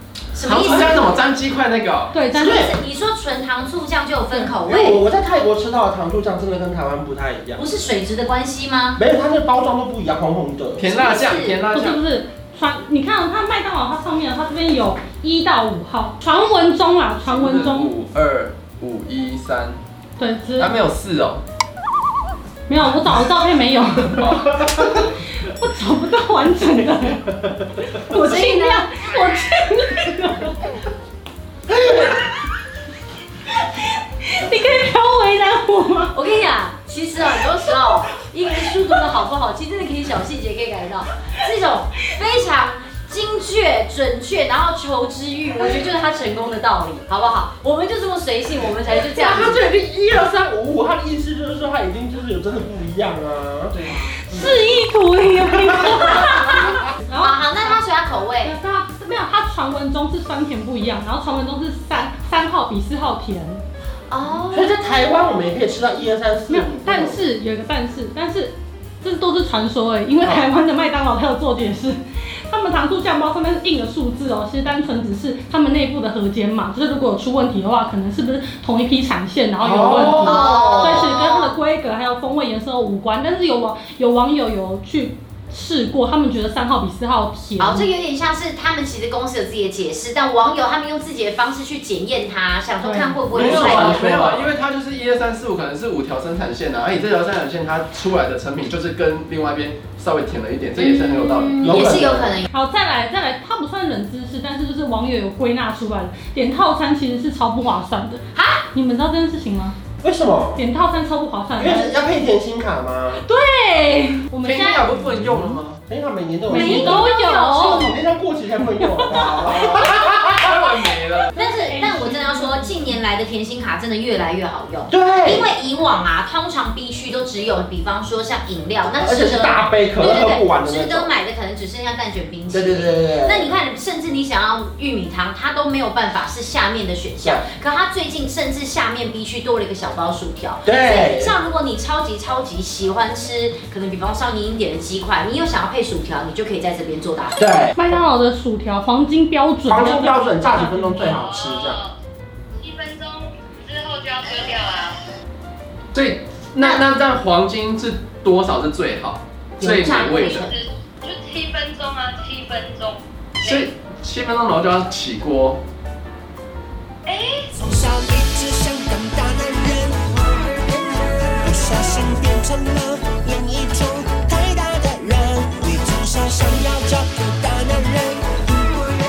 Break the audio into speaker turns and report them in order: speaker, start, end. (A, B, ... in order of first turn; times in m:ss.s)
0:00.3-0:01.2 A
0:00.4-0:02.1 B
0:00.7-0:01.0 C
0:02.1-0:02.6 D
0:02.3-0:05.0 A
0:02.4-0:02.7 C
0:04.6-0:07.6 C
0:07.6-0:09.0 A
0:09.0-0:11.0 C
0:10.8-0:12.0 B
0:10.9-0:11.6 A
0:11.7-0:17.9 D
0:17.3-0:19.8 B
0:20.2-0:20.7 D
0:20.6-0:21.4 B
0:22.7-0:30.8 D
0:24.2-0:24.5 B
0:28.2-0:29.1 A
0:33.6-0:36.1 D
0:36.1-0:49.6 A
0:49.1-0:53.8 C
0:53.8-0:54.2 A
0:54.1-0:57.8 D
0:55.9-0:56.6 A
0:57.2-0:58.5 A
0:58.4-1:03.6 D
1:04.1-1:04.7 A
1:04.5-1:07.2 C
1:06.5-1:27.9 D
1:19.6-1:21.1 C
1:20.0-1:21.5 A
1:27.6-1:34.1 A
1:32.8-1:33.2 D
1:33.3-1:34.5 C
1:33.3-1:42.0 B
1:40.8-1:42.5 A
1:41.6-1:42.4 C
1:42.5-1:48.2 D
1:48.3-1:48.7 A
1:48.7-1:49.8 D
1:50.0-1:50.6 C
1:50.6-1:51.9 D
1:51.6-1:53.2 C
1:53.1-1:55.4 D
1:54.4-1:55.8 B
1:55.9-2:00.6 C
1:56.5-1:58.0 D
1:56.5-1:57.9 A
1:58.8-1:59.1 D
1:59.2-2:01.3 B
1:59.8-2:00.2 D
2:00.0-2:00.5 A
2:01.4-2:02.9 D
2:01.4-2:27.4 A
2:04.9-2:05.5 C
2:09.0-2:11.1 C
2:12.5-2:13.5 C
2:20.6-2:21.4 C
2:27.4-2:27.8 C
2:27.8-2:31.2 D
2:29.7-2:31.8 C
2:31.2-2:31.9 E
2:32.6-2:35.0 E
2:35.9-2:40.5 B
2:39.6-2:40.5 A
2:40.4-2:43.7 E
2:43.4-2:45.6 B
2:47.0-2:47.5 E
2:47.6-2:50.0 F
2:50.8-2:58.4 F